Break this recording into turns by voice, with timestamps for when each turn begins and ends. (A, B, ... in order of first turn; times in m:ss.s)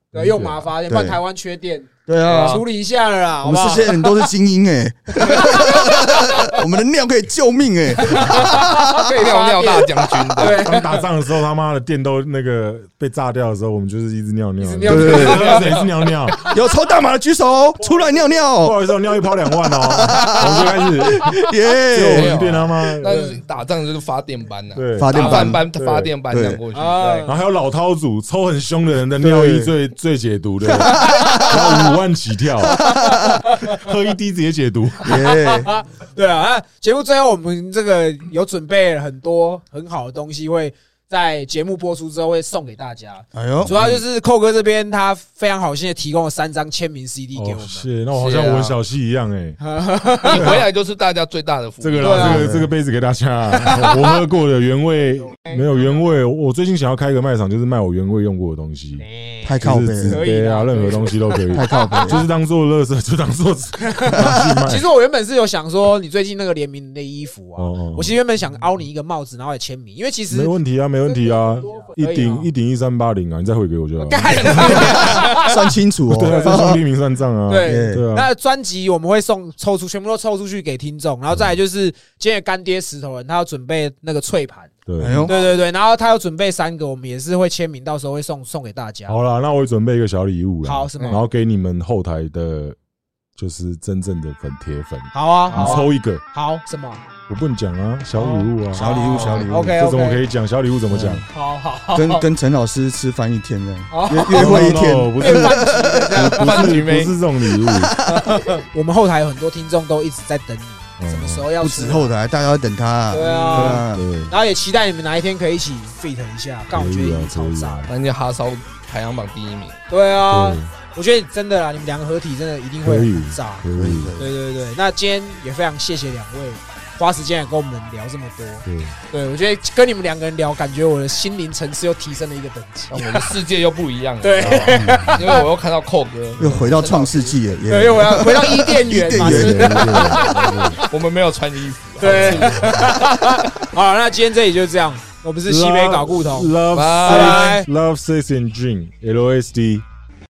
0:00.1-0:04.3 A
0:00.1-0:00.7 B
0:00.9-0:01.2 C
0:02.0-0:02.6 C
0:02.2-0:02.6 D
0:03.4-0:09.0 C
0:05.2-0:06.6 A
0:08.0-0:11.1 A
0:09.0-0:10.8 D
0:10.4-0:16.4 B
0:14.6-0:16.1 A
0:14.8-0:15.6 C
0:16.4-0:18.9 C
0:17.8-0:23.2 B
0:19.6-0:22.6 C
0:22.1-0:27.3 D
0:23.0-0:23.4 A
0:24.7-0:26.1 B
0:25.0-0:25.7 C
0:26.3-0:26.6 C
0:26.7-0:27.4 A
0:27.2-0:32.9 B
0:29.2-0:29.7 C
0:30.7-0:31.8 C
0:31.1-0:31.6 A
0:32.7-0:33.4 C
0:32.9-0:33.7 A
0:33.4-0:35.2 B
0:35.0-0:35.8 C
0:35.1-0:47.9 A
0:43.3-0:44.0 C
0:43.6-0:44.0 B
0:47.3-0:49.7 B
0:48.1-0:48.8 D
0:49.6-0:50.6 A
0:50.2-0:52.2 D
0:50.3-0:50.7 B
0:51.8-0:59.0 B
0:52.0-0:52.5 A
0:52.1-0:52.7 C
0:53.6-0:54.2 A
0:55.4-0:56.1 A
0:59.0-1:02.2 A
0:59.4-1:00.2 C
0:59.6-1:04.9 B
1:01.5-1:02.2 C
1:03.8-1:10.5 A
1:07.6-1:08.2 B
1:10.3-1:15.2 B
1:11.0-1:12.5 A
1:14.0-1:15.7 A
1:14.3-1:15.4 D
1:15.1-1:16.8 C
1:16.1-1:18.3 B
1:16.2-1:16.7 A
1:17.5-1:24.7 A
1:17.6-1:18.0 C
1:21.3-1:21.6 B
1:24.8-1:25.3 B
1:25.0-1:25.4 C
1:25.2-1:29.2 A
1:29.1-1:32.8 B
1:30.6-1:31.2 A
1:33.4-1:36.2 B
1:35.1-1:37.0 A
1:37.3-1:41.2 B
1:38.2-1:38.5 A
1:38.7-1:39.6 C
1:38.8-1:39.5 D
1:39.5-1:40.2 A
1:40.9-1:41.2 C
1:41.3-1:42.3 A
1:41.9-1:46.1 C
1:43.9-1:46.8 A
1:44.3-1:47.9 B
1:46.1-1:47.2 D
1:47.6-1:48.0 C
1:48.0-1:52.1 A
1:51.0-1:51.5 B
1:51.6-1:54.1 C
1:53.1-1:57.8 A
1:53.3-1:54.3 B
1:56.7-1:57.9 B
1:57.9-1:59.8 D
1:59.9-2:03.6 A
2:00.2-2:00.7 B
2:02.8-2:04.1 B
2:03.7-2:04.3 C
2:04.2-2:13.3 A
2:08.6-2:09.0 B
2:12.9-2:17.6 D
2:14.2-2:15.5 A
2:14.5-2:15.1 C
2:16.4-2:16.7 B
2:16.4-2:19.9 C
2:17.7-2:20.9 A
2:19.0-2:20.8 B
2:20.9-2:23.3 D
2:22.0-2:27.7 A
2:25.4-2:29.8 B
2:26.7-2:27.6 D